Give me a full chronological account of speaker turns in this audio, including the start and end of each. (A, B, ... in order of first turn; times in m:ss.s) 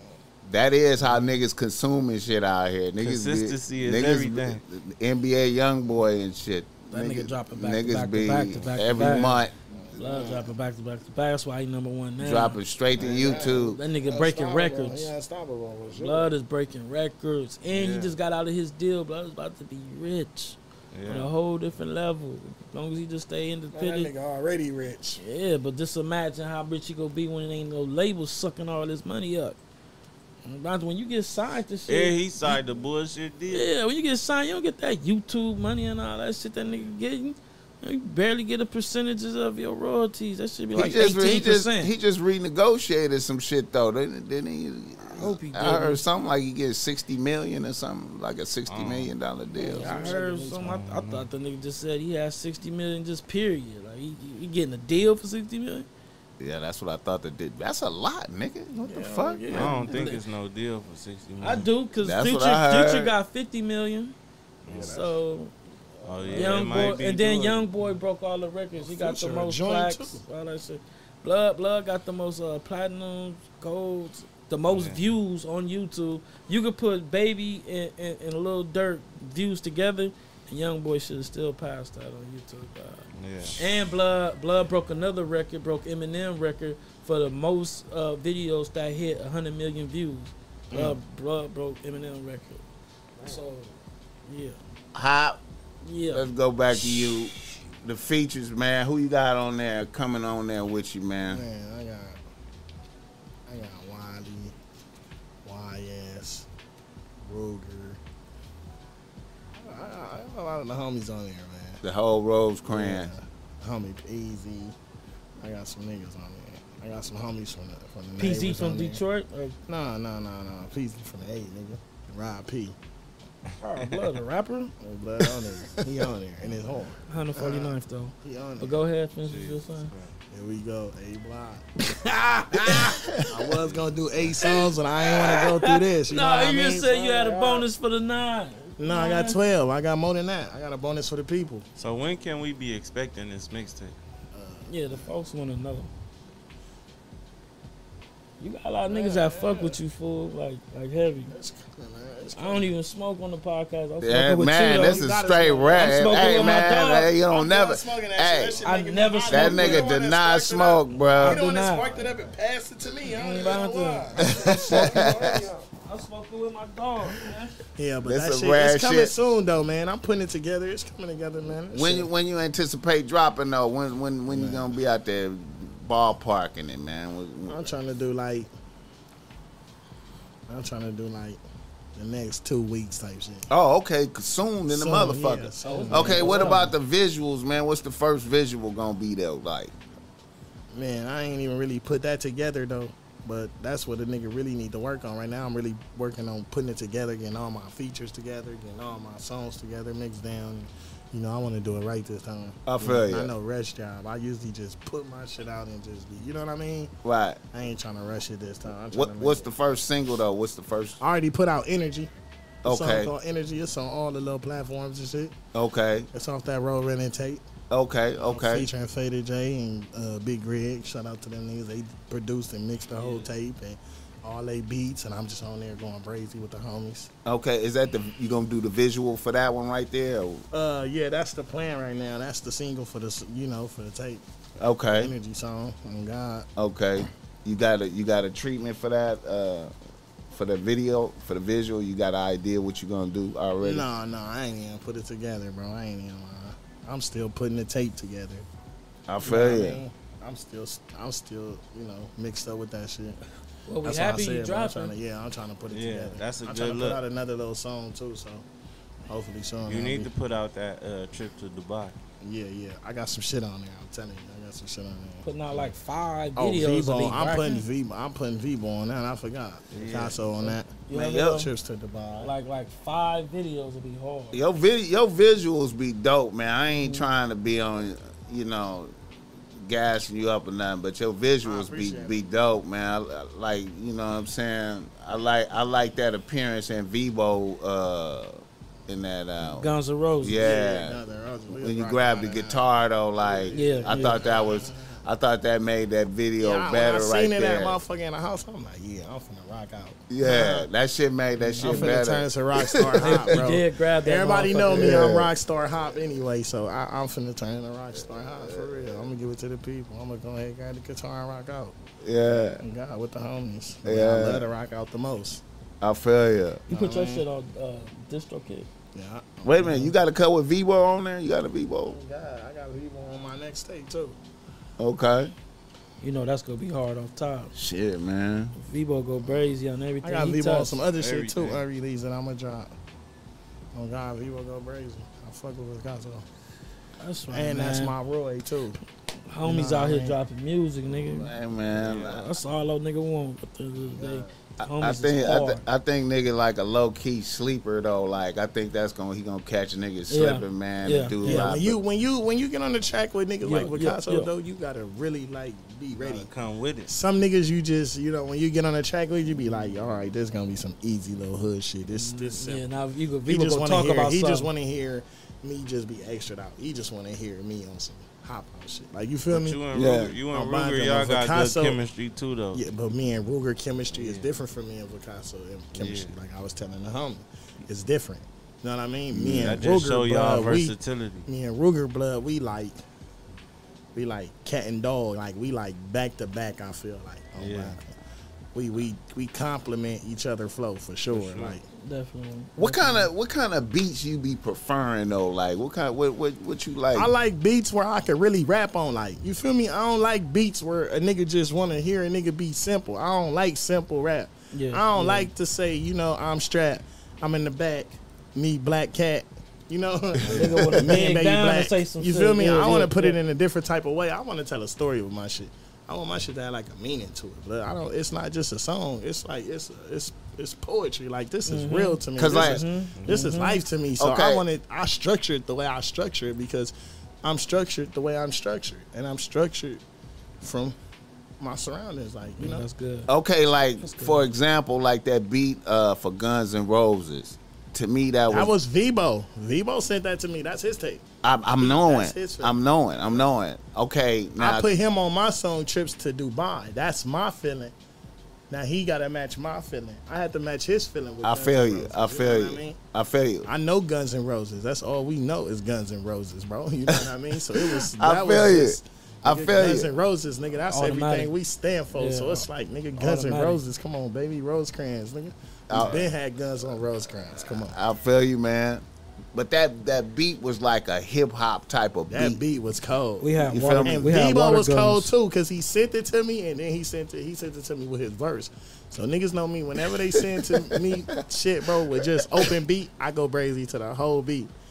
0:00.4-0:09.6 A
0:03.0-0:04.6 B
0:06.9-0:09.4 C
0:09.7-0:10.5 D
0:09.9-0:12.6 C
0:12.2-0:13.8 A
0:13.0-0:16.3 D
0:13.3-0:15.1 C
0:16.0-0:20.6 C
0:17.7-0:18.2 B
0:20.9-0:21.3 B
0:21.1-0:24.1 C
0:23.7-0:25.2 D
0:25.2-0:29.6 C
0:30.4-0:32.6 C
0:31.9-0:33.7 B
0:33.5-0:41.9 C
0:40.7-0:50.1 A
0:45.1-0:46.0 C
0:48.7-0:49.1 B
0:49.6-0:50.8 D
0:49.6-0:55.8 C
0:50.6-0:51.3 B
0:56.4-0:59.9 A
0:58.8-1:00.2 C
0:59.5-1:01.7 B
1:01.4-1:04.1 C
1:02.0-1:03.1 A
1:04.6-1:05.0 B
1:04.7-1:05.1 D
1:04.7-1:05.5 C
1:06.0-1:06.7 D
1:06.0-1:07.7 B
1:06.3-1:32.6 C
1:08.8-1:10.2 D
1:14.7-1:15.0 B
1:23.1-1:23.6 B
1:30.7-1:31.0 D
1:33.2-1:33.7 C
1:34.2-1:34.6 C
1:34.9-1:35.4 A
1:35.8-1:36.2 C
1:36.1-1:41.4 A
1:41.3-1:42.2 D
1:43.5-1:44.5 D
1:45.4-1:46.5 D
1:47.2-1:48.0 D
1:49.6-1:51.8 D
1:51.8-1:53.1 A
1:52.6-1:54.7 D
1:55.4-1:59.0 D
1:58.2-1:59.6 C
1:59.7-2:02.7 D
2:03.6-2:04.7 C
2:04.8-2:08.8 D
2:07.1-2:09.9 C
2:09.2-2:10.1 B
2:10.3-2:11.7 D
2:11.8-2:13.0 C
2:12.5-2:17.7 D
2:13.4-2:14.4 B
2:14.4-2:19.4 C
2:18.8-2:21.6 D
2:21.8-2:23.9 B
2:24.3-2:24.7 D
2:24.7-2:25.9 C
2:28.4-2:31.3 C
2:28.9-2:29.8 D
2:31.3-2:32.7 D
2:32.4-2:35.1 C
2:34.0-2:38.6 A
2:34.6-2:36.6 D
2:35.7-2:37.1 C
2:37.2-2:45.6 D
2:38.6-2:39.9 C
2:39.3-2:41.4 A
2:41.0-2:42.4 B
2:41.2-2:41.9 C
2:43.1-2:44.2 C
2:44.3-2:45.5 A
2:45.8-2:47.6 C
2:47.8-2:52.1 D
2:48.0-2:49.1 A
2:51.7-2:57.7 A
2:54.3-2:54.7 D
2:57.5-2:58.5 D
3:00.5-3:01.4 D
3:02.0-3:03.4 D
3:03.5-3:09.7 A
3:04.7-3:06.6 D
3:05.6-3:06.7 C
3:10.7-3:26.9 D
3:22.6-3:23.3 A
3:27.0-3:27.4 A
3:27.5-3:29.5 D
3:28.9-3:31.0 A
3:31.0-3:32.1 D
3:32.6-3:33.1 A
3:32.6-3:35.3 D
3:35.5-3:36.1 A
3:36.1-3:37.4 D
3:37.7-3:38.7 A
3:38.2-3:47.1 D
3:42.9-3:43.3 B
3:47.2-3:50.4 A
3:50.5-3:54.2 D
3:54.6-3:55.1 A
3:55.0-3:56.5 D
3:56.6-3:59.7 A
4:00.3-4:03.9 A
4:03.6-4:08.4 D
4:09.1-4:09.8 A
4:09.2-4:13.2 D
4:13.6-4:15.0 C
4:13.8-4:18.4 D
4:15.7-4:17.0 B
4:19.1-4:20.1 D
4:19.6-4:21.9 B
4:22.2-4:25.2 D
4:25.2-4:27.6 C
4:26.4-4:32.3 D
4:29.7-4:30.2 B
4:30.4-4:31.5 C
4:30.9-4:31.5 A
4:32.2-4:34.4 C
4:34.3-4:38.9 A
4:39.6-4:57.8 A
4:41.4-4:42.2 D
4:49.6-4:50.5 C
4:50.3-4:52.6 D
4:53.2-4:55.0 D
4:53.5-4:54.2 C
4:56.4-5:00.7 D
5:00.1-5:03.5 A
5:01.4-5:02.0 C
5:01.6-5:11.8 D
5:03.0-5:05.0 C
5:04.7-5:05.3 A
5:08.4-5:08.8 A
5:12.0-5:12.6 A
5:12.3-5:15.4 D
5:13.8-5:14.4 A
5:15.8-5:16.6 A
5:16.7-5:18.7 C
5:16.7-5:17.2 D
5:18.9-5:19.9 D
5:19.4-5:22.0 A
5:21.8-5:24.2 D
5:24.8-5:25.3 A
5:26.0-5:27.5 C
5:27.5-5:28.5 A
5:28.6-5:30.8 C
5:30.0-5:32.7 D
5:30.9-5:31.6 B
5:33.7-5:36.2 D
5:37.0-5:37.9 C
5:37.3-5:38.8 D
5:39.3-5:41.3 C
5:39.4-5:40.2 D
5:41.0-5:42.3 A
5:41.8-5:42.1 B
5:41.9-5:45.6 C
5:44.0-5:44.3 D
5:44.6-5:51.8 A
5:50.1-5:51.5 C
5:51.2-5:56.3 D
5:53.4-5:54.3 C
5:56.0-5:56.9 B
5:56.9-6:02.6 D
6:01.9-6:04.5 C
6:03.3-6:11.8 D
6:09.3-6:12.6 B
6:09.7-6:10.2 A
6:12.5-6:20.7 D
6:13.9-6:14.3 B
6:15.7-6:16.1 B
6:19.1-6:19.6 A
6:19.2-6:21.3 B
6:21.3-6:22.8 D
6:23.9-6:27.9 D
6:27.4-6:27.8 B
6:28.5-6:31.6 D
6:31.1-6:31.6 B
6:31.7-6:33.1 C
6:32.6-6:37.1 A
6:36.9-7:06.7 D
6:44.5-6:45.3 C
6:50.2-6:50.5 B
6:50.3-6:53.2 C
7:01.5-7:03.6 C
7:02.2-7:02.6 A
7:02.9-7:03.3 B
7:04.0-7:04.4 A
7:07.2-7:09.8 D
7:10.4-7:10.7 D
7:11.4-7:12.6 D
7:12.4-7:13.1 C
7:13.1-7:18.5 A
7:13.8-7:14.3 C
7:18.3-7:21.0 D
7:21.2-7:24.7 A
7:21.6-7:22.6 D
7:24.4-7:27.7 D
7:28.5-7:32.8 D
7:31.2-7:33.5 A
7:33.4-7:47.8 D
7:37.5-7:39.9 A
7:40.7-7:41.3 C
7:41.9-7:43.6 C
7:45.7-7:46.1 A
7:45.7-7:46.0 B
7:47.7-7:52.4 A
7:52.1-8:04.5 D
7:53.2-7:55.1 C
7:53.4-7:54.3 A
8:00.3-8:01.0 A